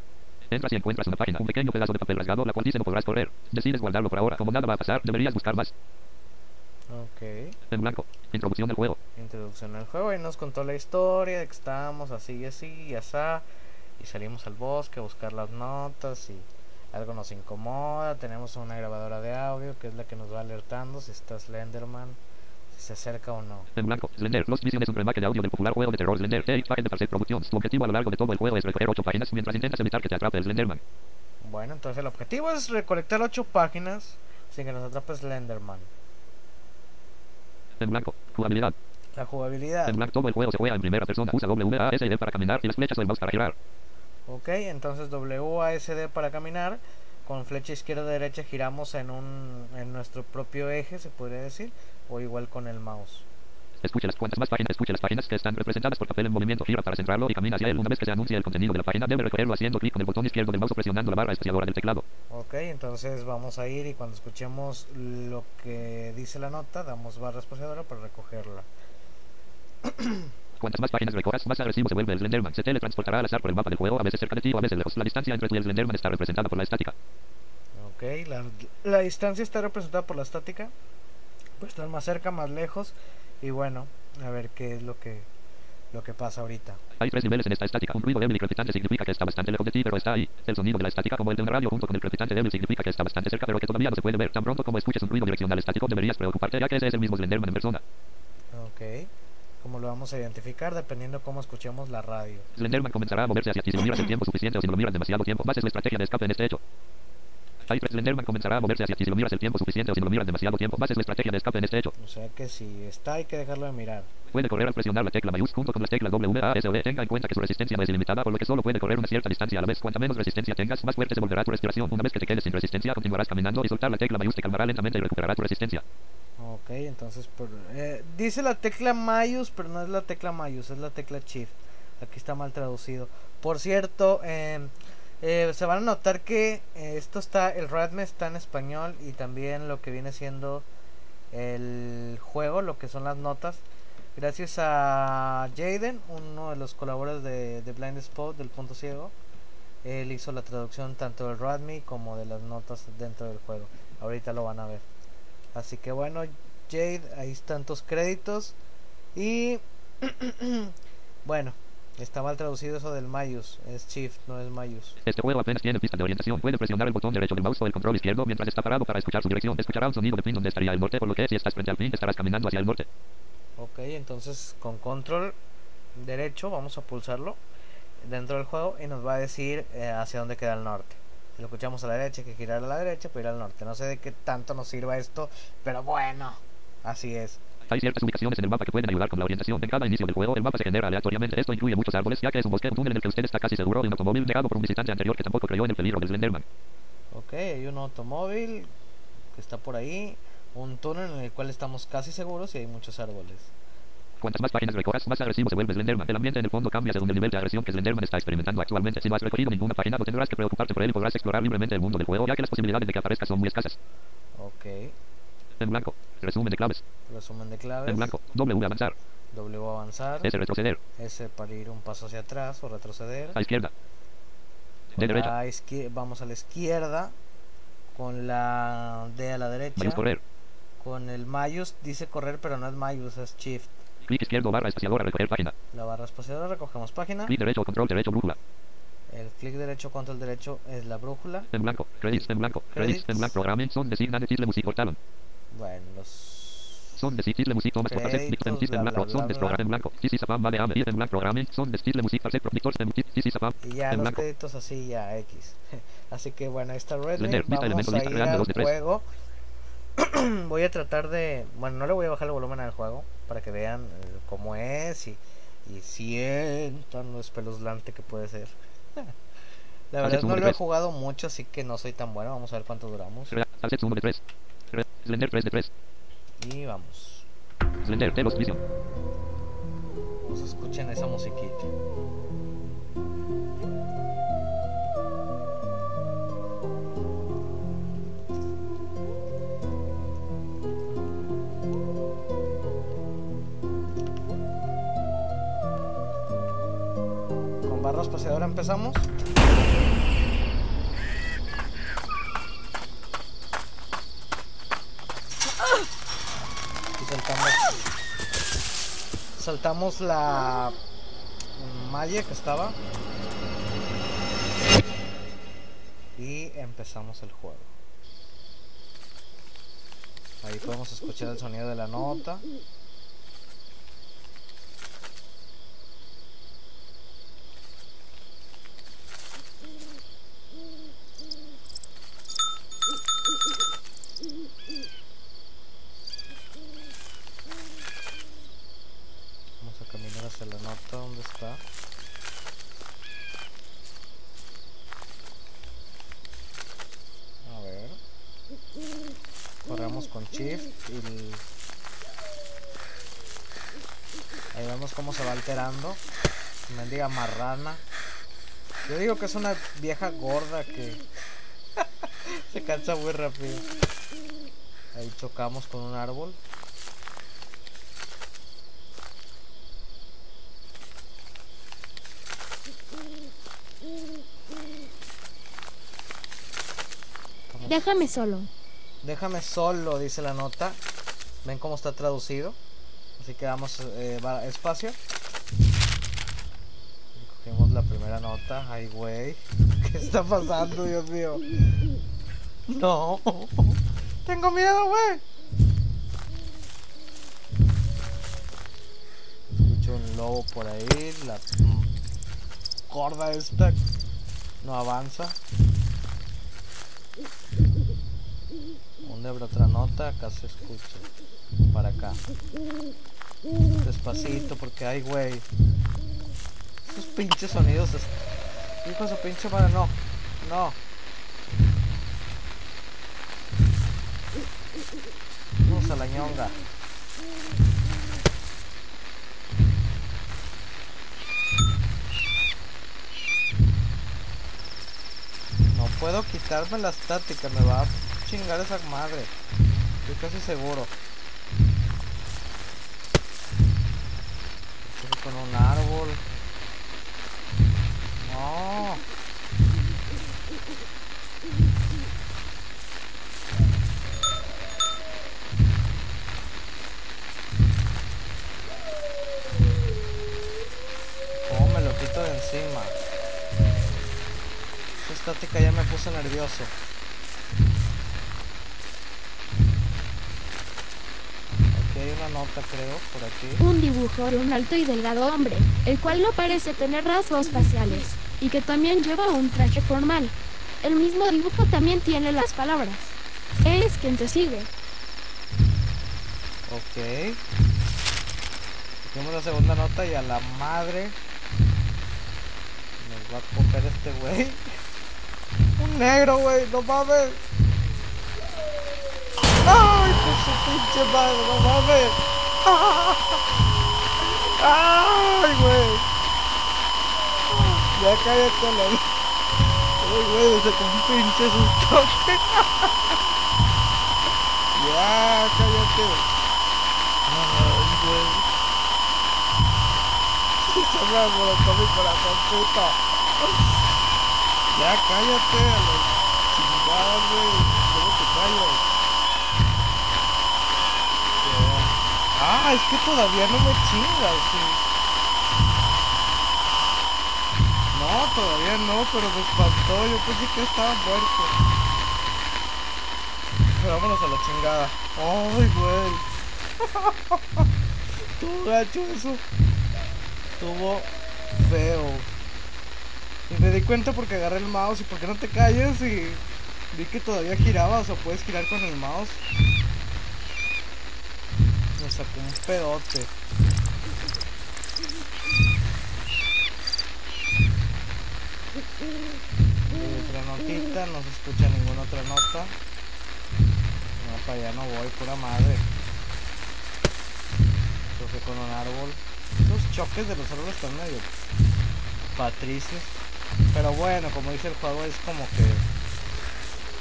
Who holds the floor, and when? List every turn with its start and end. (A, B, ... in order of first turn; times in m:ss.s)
0:00.5-0:05.7 A
0:06.9-0:07.6 B
0:07.7-0:09.0 A
0:09.2-0:13.4 B
0:14.0-0:22.2 B
0:22.7-0:23.7 B
0:23.7-0:30.8 A
0:31.4-0:35.9 B
0:37.8-0:38.8 A
0:39.1-0:40.0 B
0:39.9-0:43.5 A
0:44.3-0:53.3 B
0:53.8-1:02.0 A
1:02.3-1:08.7 B
1:09.8-1:10.3 B
1:10.6-1:16.9 A
1:17.8-1:20.7 B
1:21.6-1:25.3 B
1:25.9-1:26.8 B
1:27.0-1:37.8 A
1:38.5-1:42.4 B
1:42.5-1:46.6 A
1:47.6-1:51.9 A
1:52.0-1:54.1 B
1:54.3-2:05.8 A
2:06.4-2:20.7 B
2:21.3-2:23.6 B
2:24.2-2:29.1 B
2:29.8-2:34.8 B
2:35.5-2:38.6 B
2:39.1-2:40.7 B
2:41.2-2:45.0 B
2:45.0-2:52.9 A
2:53.6-2:55.4 B
2:56.0-2:57.4 B
2:58.0-3:07.4 B
3:07.6-3:16.4 A
3:17.1-3:18.7 B
3:19.3-3:23.5 B
3:24.2-3:33.8 A
3:34.4-3:34.9 B
3:35.6-3:36.8 A
3:37.1-3:38.1 B
3:37.9-3:39.0 A
3:39.3-3:40.3 B
3:40.2-3:40.8 A
3:41.0-3:43.4 B
3:43.3-3:43.7 A
3:44.9-3:45.3 A
3:45.0-3:47.2 B
3:47.9-3:50.0 B
3:49.8-3:50.2 A
3:50.8-3:53.8 B
3:54.0-3:55.5 A
3:55.7-3:57.3 B
3:57.3-3:58.4 A
3:59.1-4:01.5 B
4:01.5-4:05.0 A
4:02.7-4:03.4 B
4:05.5-4:07.0 B
4:07.0-4:14.2 A
4:07.8-4:09.6 B
4:13.6-4:19.0 B
4:17.2-4:18.7 A
4:20.0-4:29.1 B
4:29.9-4:33.4 B
4:30.0-4:30.6 A
4:33.3-4:35.7 A
4:36.4-4:37.2 B
4:37.8-4:38.6 A
4:40.2-4:41.7 B
4:57.6-4:59.1 B
5:07.0-5:07.9 B
5:09.4-5:10.8 B
5:11.5-5:12.8 B
5:16.2-5:17.7 B
5:20.4-5:22.4 B
5:39.6-5:41.6 B
5:47.4-5:48.0 B
5:49.6-5:51.4 B
5:54.5-5:56.0 B
5:56.7-5:57.8 B
5:58.8-6:01.0 B
6:01.8-6:03.6 B
6:04.9-6:06.4 B
6:17.5-6:17.8 B
6:17.6-6:18.5 C
6:19.0-6:20.8 B
6:21.4-6:22.6 B
6:23.2-6:25.0 B
6:27.2-6:31.4 B
6:32.7-6:35.2 B
6:39.6-6:41.9 B
6:42.9-6:43.8 B
6:44.6-6:45.4 B
6:49.0-6:51.1 B
6:51.7-6:52.2 B
6:53.8-6:55.5 B
6:56.8-6:58.2 B
6:58.8-7:00.8 B
7:05.6-7:06.6 B
7:15.7-7:19.3 B
7:20.0-7:21.0 B
7:24.8-7:26.2 B
7:28.2-7:29.0 B
7:41.4-7:43.0 B
7:45.0-7:46.7 B
7:51.7-7:53.6 B
7:53.6-8:04.7 C
8:06.7-8:07.4 B
8:09.0-8:11.2 B
8:13.0-8:14.6 B
8:15.8-8:17.4 B
8:19.6-8:23.4 B
8:24.2-8:26.1 B
8:27.5-8:29.0 B
8:30.0-8:33.2 B
8:34.7-8:36.3 B
8:37.2-8:38.5 B
8:40.6-8:43.8 B
8:44.7-8:49.0 B
8:51.4-8:54.8 B
8:57.9-9:01.6 B
9:03.7-9:06.2 B
9:06.8-9:07.7 B
9:08.4-9:09.4 B
9:10.6-9:12.3 B
9:13.5-9:19.4 B
9:22.0-9:23.3 B
9:29.9-9:32.7 B
9:34.2-9:35.9 B
9:38.1-9:41.3 B
9:42.3-9:43.2 B
9:43.7-9:45.8 B